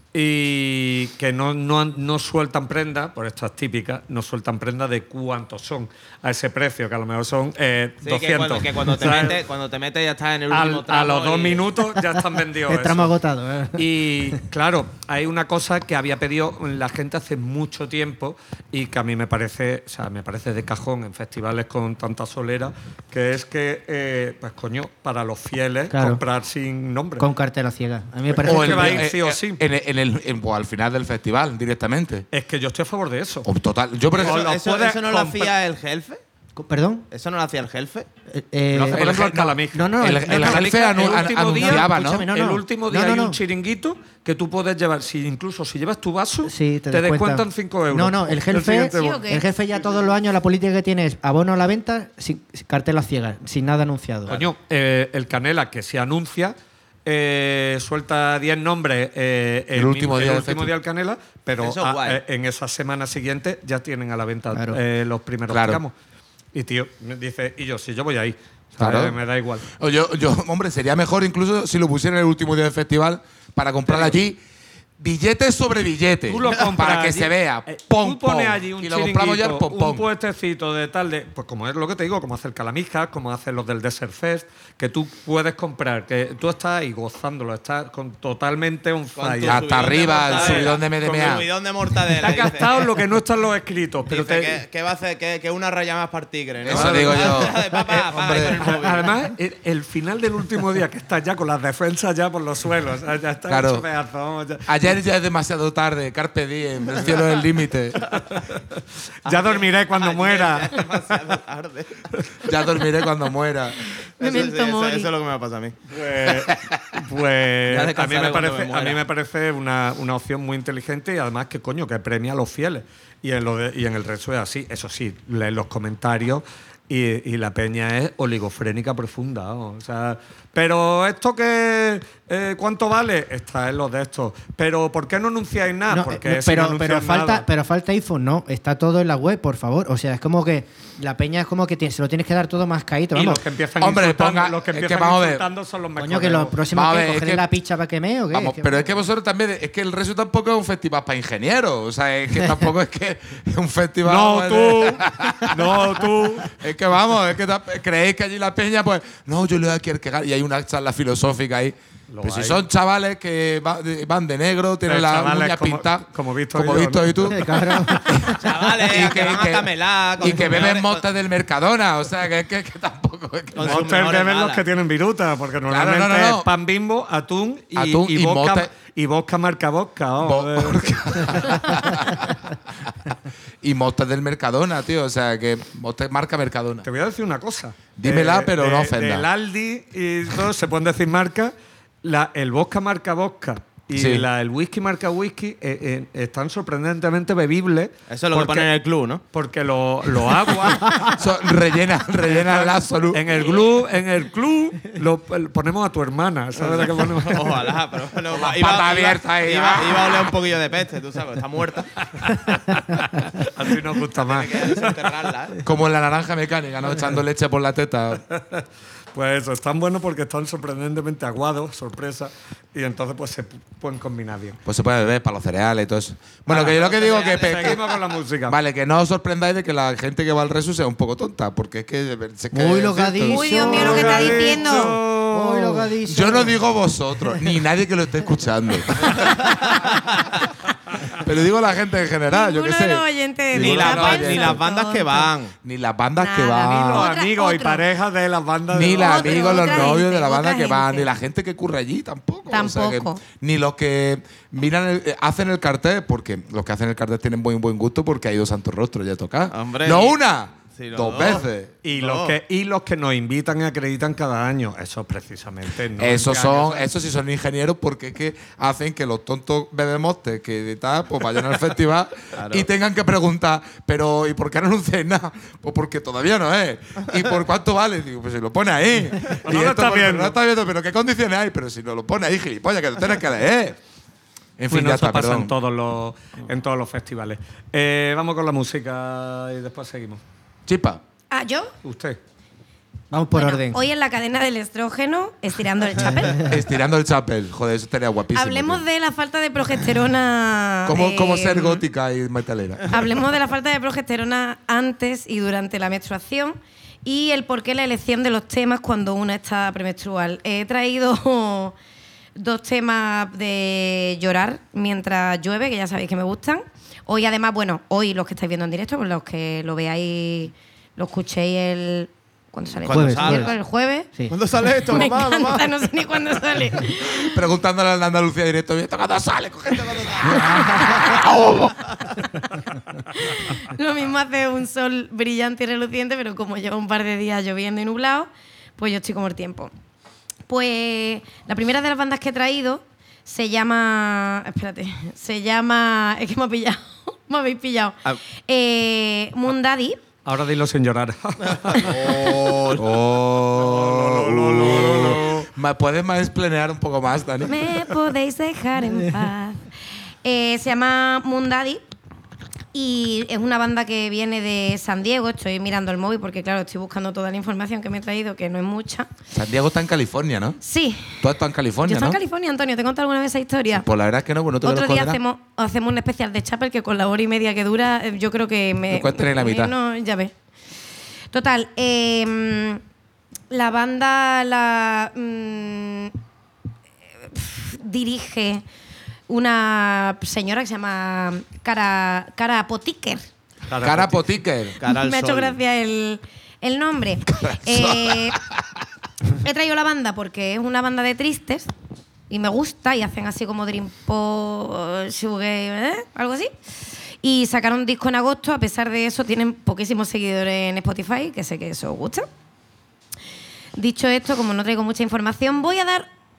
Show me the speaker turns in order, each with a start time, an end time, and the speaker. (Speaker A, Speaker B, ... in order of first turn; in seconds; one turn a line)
Speaker A: 0.1-9.4
Speaker B: 8.0-11.6
Speaker A: 10.5-13.1
Speaker C: 12.7-14.4
Speaker A: 13.8-27.3
Speaker C: 25.9-26.2
Speaker C: 27.2-29.1
Speaker A: 28.4-29.6
Speaker D: 28.4-32.3
Speaker A: 32.3-33.5
Speaker D: 33.5-34.5
Speaker B: 34.1-36.2
Speaker A: 34.2-35.5
Speaker C: 36.6-37.1
Speaker B: 37.1-38.1
Speaker C: 38.3-39.1
Speaker A: 38.7-49.3
Speaker D: 38.8-42.3
Speaker C: 39.7-43.4
Speaker C: 46.5-54.4
Speaker E: 49.0-49.4
Speaker A: 54.3-65.9
Speaker D: 59.7-60.7
Speaker B: 61.6-62.2
Speaker C: 64.5-64.8
Speaker D: 65.5-65.8
Speaker A: 66.5-69.7
Speaker D: 68.8-74.4
Speaker A: 73.9-74.2
Speaker D: 75.0-80.0
Speaker A: 76.3-90.7
Speaker B: 89.2-92.8
Speaker D: 89.5-91.5
Speaker A: 92.2-94.6
Speaker B: 94.1-99.1
Speaker D: 96.7-98.6
Speaker A: 96.7-97.3
Speaker A: 98.6-104.7
Speaker D: 103.5-103.9
Speaker D: 104.7-108.1
Speaker A: 108.1-110.8
Speaker B: 109.3-112.1
Speaker D: 112.4-113.8
Speaker E: 114.2-115.1
Speaker B: 114.2-115.8
Speaker A: 115.9-137.4
Speaker D: 116.3-116.8
Speaker B: 117.7-119.0
Speaker C: 135.9-143.4
Speaker A: 143.1-146.6
Speaker D: 143.8-145.4
Speaker C: 146.0-148.9
Speaker D: 146.7-147.5
Speaker D: 148.3-155.8
Speaker A: 154.1-156.5
Speaker D: 156.5-173.8
Speaker A: 162.1-162.6
Speaker A: 164.9-167.3
Speaker C: 167.3-168.6
Speaker B: 168.4-171.0
Speaker B: 173.6-174.6
Speaker A: 173.6-181.6
Speaker D: 175.7-176.5
Speaker D: 177.8-178.7
Speaker D: 180.2-182.5
Speaker D: 183.6-186.9
Speaker A: 186.8-198.7
Speaker D: 188.0-189.3
Speaker D: 193.9-194.3
Speaker B: 198.1-199.2
Speaker A: 199.3-201.1
Speaker D: 201.1-203.4
Speaker A: 202.4-207.6
Speaker B: 206.6-212.0
Speaker D: 208.3-210.4
Speaker A: 212.2-214.9
Speaker B: 214.2-215.6
Speaker D: 215.6-218.2
Speaker A: 218.3-224.6
Speaker D: 224.7-227.8
Speaker A: 226.5-228.6
Speaker D: 228.5-234.2
Speaker C: 232.5-236.6
Speaker E: 233.3-235.0
Speaker A: 233.5-235.9
Speaker D: 236.1-239.7
Speaker D: 241.2-244.6
Speaker E: 242.3-245.3
Speaker B: 243.5-245.5
Speaker D: 245.6-247.1
Speaker E: 246.2-247.8
Speaker A: 246.6-249.7
Speaker D: 248.7-261.7
Speaker E: 249.0-251.1
Speaker E: 252.5-253.2
Speaker B: 259.5-260.2
Speaker B: 260.7-262.4
Speaker A: 261.8-266.9
Speaker D: 266.0-283.8
Speaker B: 272.4-272.7
Speaker A: 279.4-280.4
Speaker D: 284.6-285.5
Speaker A: 284.7-290.2
Speaker D: 290.7-291.0
Speaker E: 291.3-291.7
Speaker A: 291.8-292.2
Speaker C: 293.1-293.8
Speaker E: 293.4-296.5
Speaker D: 296.4-298.8
Speaker E: 298.3-301.8
Speaker D: 300.9-303.0
Speaker E: 302.9-311.8
Speaker E: 312.4-324.1
Speaker B: 322.8-323.6
Speaker C: 322.9-323.5
Speaker B: 324.3-325.7
Speaker E: 324.9-327.4
Speaker D: 327.2-331.9
Speaker B: 329.8-330.4
Speaker E: 333.1-339.7
Speaker E: 340.5-350.0
Speaker A: 350.2-352.6
Speaker B: 351.8-352.8
Speaker D: 352.7-357.6
Speaker A: 353.4-355.5
Speaker E: 357.5-359.6
Speaker E: 360.2-361.8
Speaker E: 362.7-369.1
Speaker D: 369.3-370.6
Speaker E: 370.6-371.2
Speaker D: 371.2-372.2
Speaker E: 371.8-373.9
Speaker D: 373.8-375.2
Speaker E: 374.6-380.3
Speaker D: 378.9-379.7
Speaker E: 381.3-382.8
Speaker E: 383.5-386.1
Speaker E: 387.2-388.6
Speaker E: 389.3-393.2
Speaker A: 393.7-394.3
Speaker D: 393.8-394.8
Speaker B: 394.8-395.6
Speaker E: 394.9-398.4
Speaker D: 397.4-398.4
Speaker E: 399.4-401.7
Speaker E: 402.3-406.5
Speaker E: 407.2-412.3
Speaker E: 413.8-416.1